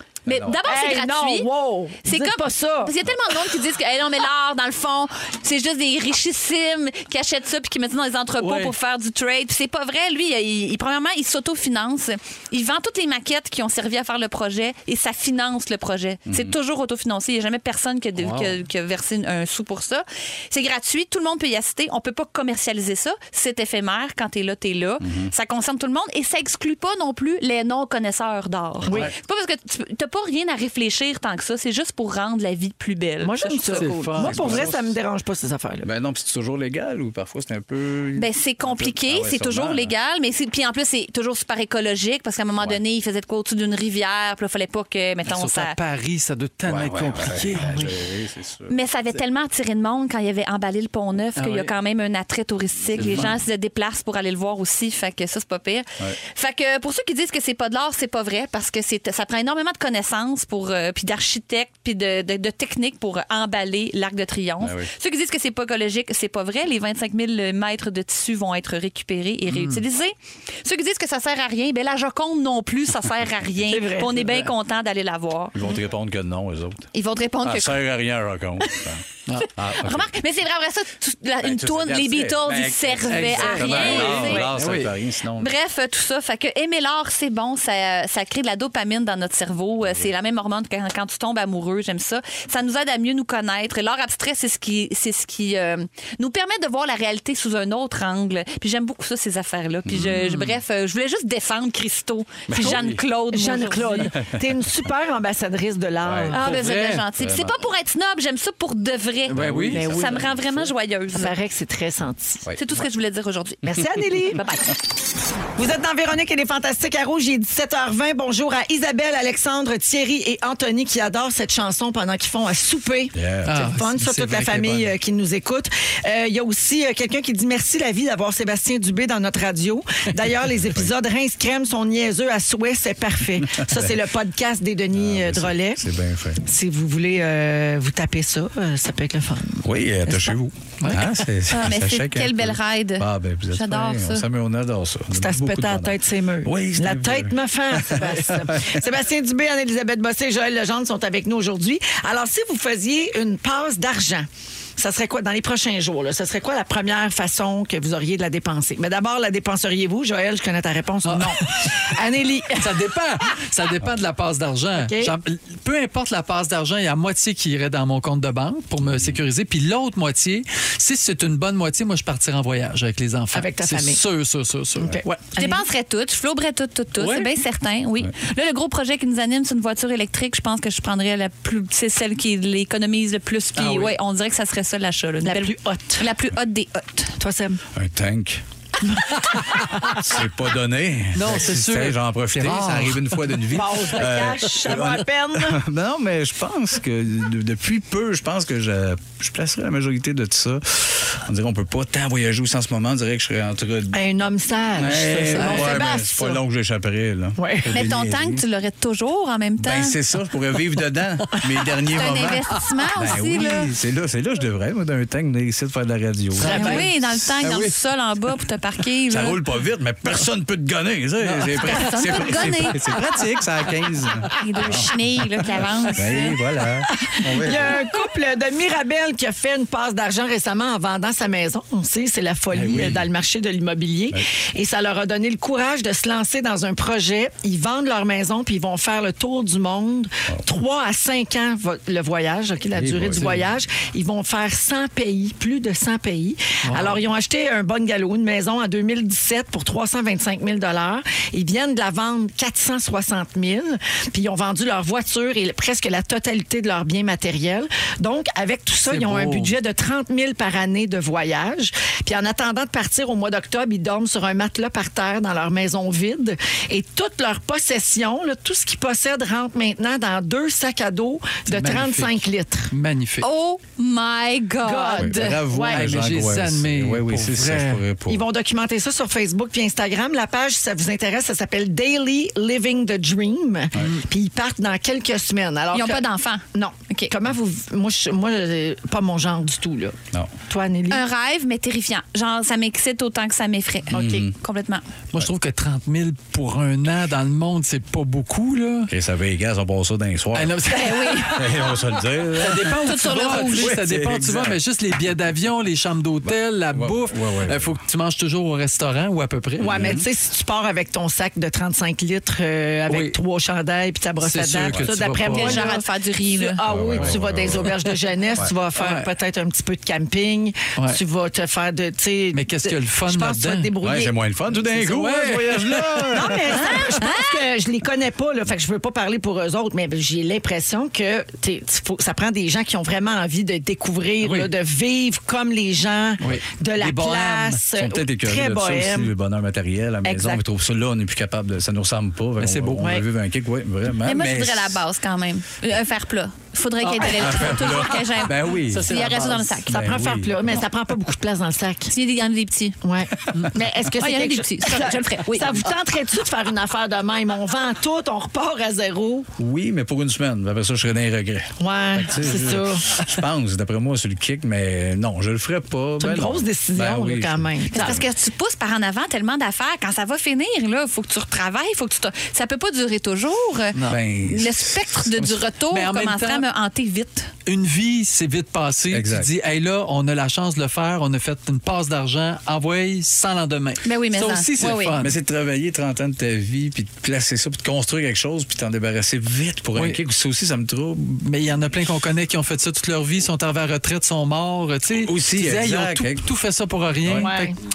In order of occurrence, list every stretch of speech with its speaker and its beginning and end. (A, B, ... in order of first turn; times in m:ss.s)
0:00.2-0:00.6 A
0:00.2-0:01.5 B
0:00.6-0:02.9 C
0:02.0-0:33.9 B
0:08.4-0:08.7 D
0:16.3-0:16.6 A
0:18.2-0:18.5 D
0:25.0-0:25.3 A
0:33.2-0:35.9 C
0:33.7-0:34.7 D
0:34.2-0:34.9 A
0:35.8-0:39.9 A
0:38.2-0:45.8 B
0:42.6-0:42.8 A
0:45.2-0:48.0 D
0:46.6-0:48.7 A
0:48.7-1:15.6 B
0:51.4-0:51.7 D
0:52.9-0:53.4 D
0:52.9-0:53.3 A
1:04.6-1:04.9 A
1:09.5-1:09.8 D
1:13.7-1:14.4 C
1:14.2-1:14.5 D
1:15.5-1:16.9 A
1:16.9-1:17.8 B
1:17.4-1:20.1 A
1:19.6-1:24.5 B
1:21.4-1:25.5 A
1:23.0-1:24.9 D
1:25.3-1:44.1 B
1:29.8-1:30.1 A
1:39.8-1:40.3 A
1:40.0-1:40.6 D
1:42.5-1:43.0 A
1:42.6-1:46.5 C
1:44.1-1:44.4 A
1:46.0-1:46.4 A
1:46.3-1:51.3 B
1:46.3-1:47.0 D
1:47.2-1:47.6 A
1:49.3-1:49.9 D
1:49.3-1:50.7 A
1:49.7-1:50.3 C
1:51.1-1:52.4 C
1:52.6-1:54.7 B
1:53.6-1:54.4 C
1:55.6-2:15.8 C
2:03.1-2:03.6 A
2:03.4-2:04.9 D
2:10.4-2:10.9 A
2:13.4-2:14.0 A
2:14.9-2:16.4 A
2:16.4-2:20.3 C
2:19.6-2:28.8 A
2:20.8-2:21.2 D
2:21.5-2:24.2 B
2:25.1-2:42.7 C
2:41.0-2:41.9 D
2:42.5-2:55.2 D
2:44.8-2:45.2 C
2:48.8-2:49.2 A
2:53.3-2:54.0 C
2:54.8-2:55.6 C
2:55.3-3:07.1 B
2:57.0-2:57.3 D
3:03.5-3:04.0 D
3:05.2-3:06.1 C
3:07.2-3:07.6 C
3:07.7-3:08.4 A
3:08.9-3:09.9 C
3:09.8-3:24.0 A
3:11.1-3:13.4 D
3:13.5-3:15.6 C
3:23.9-3:26.4 C
3:24.7-3:28.4 A
3:25.3-3:25.8 D
3:27.4-3:27.7 C
3:27.7-3:29.9 B
3:29.6-3:37.7 A
3:31.9-3:33.7 B
3:36.4-3:37.7 D
3:36.4-3:39.4 B
3:36.5-3:36.8 C
3:39.1-3:45.0 A
3:41.2-3:43.0 D
3:41.6-3:43.0 B
3:44.4-3:46.4 B
3:45.5-3:47.8 A
3:46.9-4:32.7 C
3:52.5-3:53.0 A
4:02.7-4:03.4 A
4:06.6-4:07.0 D
4:18.9-4:19.5 D
4:31.5-4:33.3 D
4:33.2-4:35.4 B
4:34.6-4:35.9 C
4:35.0-4:38.2 A
4:35.7-4:37.8 D
4:38.1-4:51.0 C
4:45.7-4:47.1 B
4:50.9-4:54.8 B
4:53.9-4:54.3 A
4:53.9-4:54.2 C
4:55.1-4:58.9 D
4:58.9-5:04.6 A
5:00.3-5:01.8 D
5:00.7-5:01.5 B
5:02.4-5:10.0 D
5:02.8-5:03.7 B
5:06.2-5:07.8 A
5:09.6-5:10.0 A
5:09.6-5:24.1 C
5:12.9-5:13.1 D
5:14.2-5:15.7 D
5:15.2-5:16.6 B
5:16.6-5:17.8 A
5:18.8-5:19.1 D
5:22.3-5:23.7 D
5:23.8-5:26.6 A
5:24.7-5:26.3 D
5:26.1-5:39.1 C
5:26.6-5:27.4 B
5:34.2-5:34.5 D
5:36.2-5:37.6 D
5:37.8-5:44.8 A
5:40.0-5:40.4 C
5:42.4-5:42.8 D
5:44.0-5:49.9 B
5:46.8-5:49.7 D
5:47.2-5:50.6 A
5:49.7-5:51.9 C
5:51.9-5:52.8 B
5:52.8-5:59.3 C
5:54.0-5:55.7 B
5:59.4-6:08.1 A
6:01.6-6:02.9 C
6:06.0-6:08.0 C
6:07.7-6:17.3 B
6:13.9-6:15.3 A
6:15.7-6:16.4 D
6:17.4-6:25.1 D
6:18.9-6:19.3 A
6:23.8-6:25.0 B
6:25.0-6:31.3 A
6:31.2-6:37.6 D
6:34.9-6:36.3 A
6:37.0-6:37.3 A
6:37.1-6:37.5 C